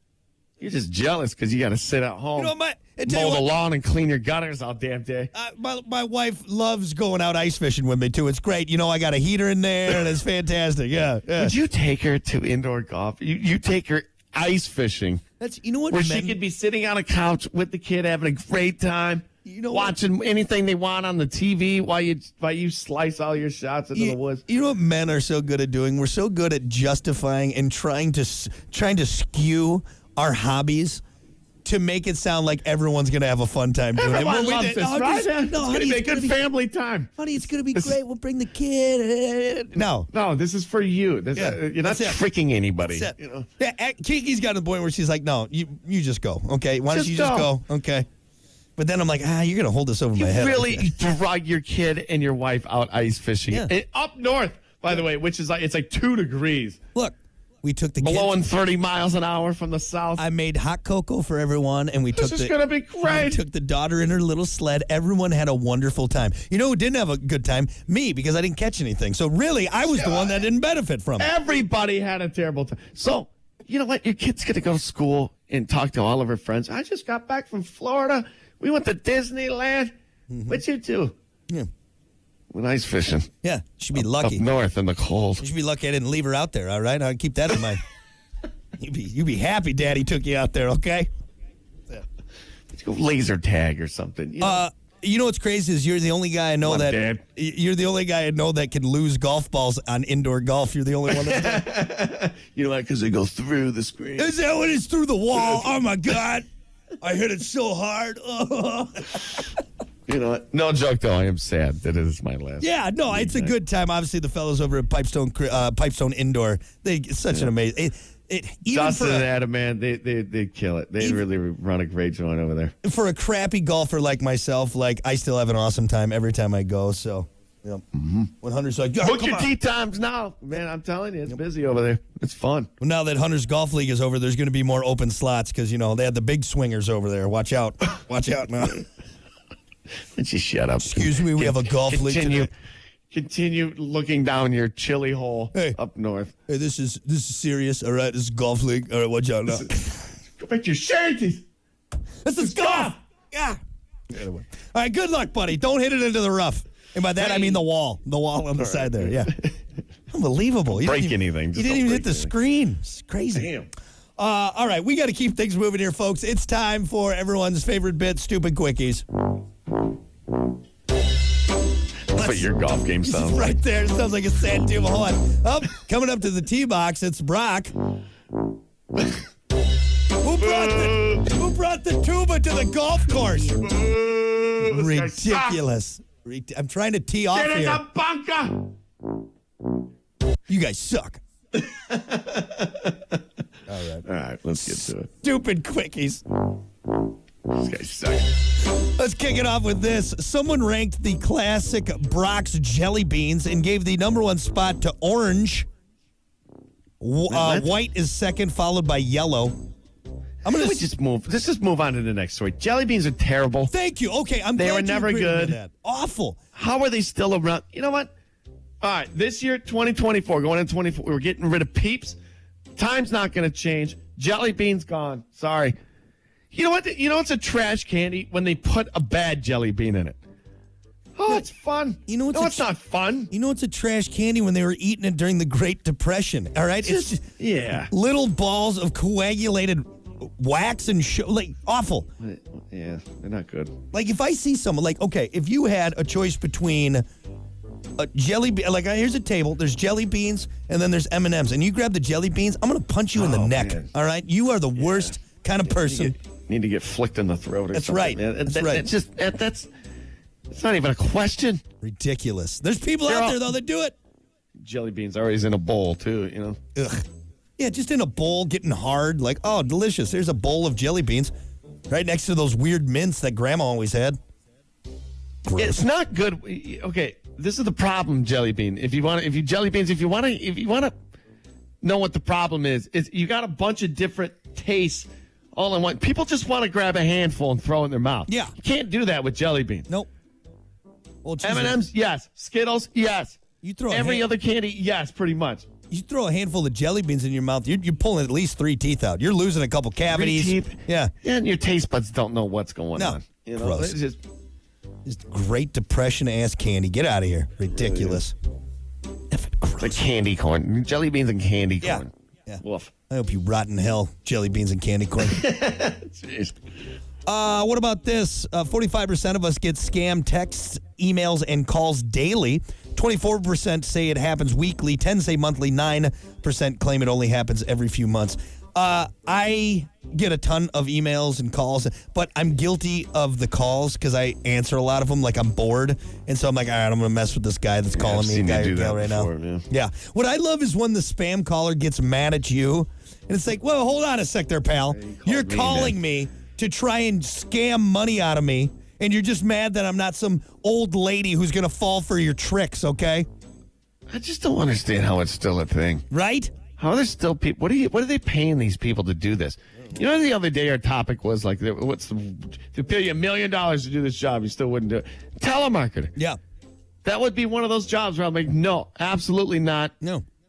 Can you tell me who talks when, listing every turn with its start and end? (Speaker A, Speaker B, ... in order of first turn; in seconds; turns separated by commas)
Speaker A: 0.6-2.5, Speaker B: 2.4-3.5, Speaker A: 3.1-5.3, Speaker B: 5.3-11.6, Speaker A: 11.3-15.2, Speaker B: 15.4-16.4, Speaker A: 15.9-24.4, Speaker B: 19.4-20.0, Speaker B: 23.9-31.0, Speaker B: 31.6-36.4, Speaker A: 34.0-37.1, Speaker B: 37.2-40.1, Speaker A: 37.7-38.0, Speaker A: 39.8-43.5, Speaker B: 41.3-42.2, Speaker B: 42.8-48.1, Speaker A: 46.9-47.5, Speaker B: 48.8-50.9, Speaker A: 50.2-56.8, Speaker B: 56.9-58.4, Speaker A: 58.0-60.2, Speaker B: 60.2-71.3, Speaker A: 62.2-63.4, Speaker A: 71.2-79.9, Speaker B: 80.3-80.6, Speaker A: 80.5-81.2, Speaker A: 82.5-83.3, Speaker B: 83.4-84.4, Speaker A: 84.0-85.5, Speaker B: 85.4-87.8, Speaker B: 88.8-91.1, Speaker A: 92.7-94.7, Speaker B: 94.4-101.7, Speaker A: 96.6-97.2, Speaker A: 101.1-104.4, Speaker B: 104.2-106.4, Speaker B: 107.0-109.4, Speaker A: 110.1-113.5, Speaker B: 112.6-119.3, Speaker A: 118.7-122.7, Speaker B: 122.8-127.8, Speaker A: 127.9-128.3, Speaker B: 128.4-129.5, Speaker A: 129.0-132.7, Speaker B: 132.8-138.9, Speaker A: 140.2-142.5, Speaker B: 140.8-142.5, Speaker A: 143.1-146.3, Speaker B: 146.5-149.8, Speaker A: 149.5-151.4, Speaker B: 152.2-153.6, Speaker A: 152.4-153.0, Speaker B: 154.1-159.3, Speaker A: 157.2-157.6, Speaker A: 158.6-159.5, Speaker B: 160.1-163.5, Speaker A: 160.7-162.3, Speaker A: 163.3-163.7, Speaker B: 164.2-169.0, Speaker A: 172.1-173.6, Speaker B: 172.1-172.5, Speaker B: 173.0-177.7, Speaker B: 180.2-183.7, Speaker A: 180.4-181.3, Speaker A: 183.5-185.7, Speaker B: 184.6-187.8, Speaker A: 187.3-188.7, Speaker B: 190.5-191.2, Speaker A: 191.6-193.1, Speaker B: 193.7-194.0, Speaker A: 194.0-195.1, Speaker B: 194.6-196.2, Speaker A: 197.5-198.4, Speaker B: 198.7-205.7, Speaker B: 207.0-209.6, Speaker A: 207.3-207.7, Speaker B: 210.4-210.8, Speaker A: 210.5-213.7, Speaker B: 213.7-216.4, Speaker A: 214.6-215.6, Speaker A: 216.5-218.1, Speaker A: 218.8-222.2, Speaker A: 222.8-225.8, Speaker A: 226.5-230.2, Speaker A: 231.2-233.3, Speaker B: 232.1-232.7, Speaker B: 233.3-237.2, Speaker A: 236.8-237.9, Speaker B: 237.9-242.1, Speaker A: 242.2-243.7, Speaker B: 243.9-247.0, Speaker B: 248.0-256.1, Speaker A: 253.2-253.9, Speaker A: 254.8-255.2, Speaker A: 255.8-259.7, Speaker B: 257.7-258.9, Speaker A: 260.5-261.6, Speaker B: 261.8-263.9, Speaker A: 263.0-263.5, Speaker A: 264.6-266.6, Speaker B: 266.8-267.0, Speaker B: 267.6-271.3, Speaker B: 271.9-274.2, Speaker B: 275.4-275.9, Speaker A: 275.6-280.9, Speaker A: 281.8-289.9, Speaker B: 288.3-288.5, Speaker B: 291.2-291.9, Speaker A: 291.4-295.6, Speaker B: 293.6-294.3, Speaker B: 295.9-301.1, Speaker A: 300.0-304.2, Speaker B: 303.0-304.0, Speaker B: 305.0-308.3, Speaker A: 307.8-308.2, Speaker B: 309.3-310.0, Speaker A: 309.8-312.1, Speaker B: 311.8-315.4, Speaker A: 312.6-312.9, Speaker A: 315.2-316.6, Speaker B: 317.2-353.3, Speaker A: 337.9-339.6, Speaker A: 344.9-346.0, Speaker A: 354.1-356.0, Speaker B: 356.1-356.5, Speaker A: 356.8-366.1, Speaker A: 367.0-369.9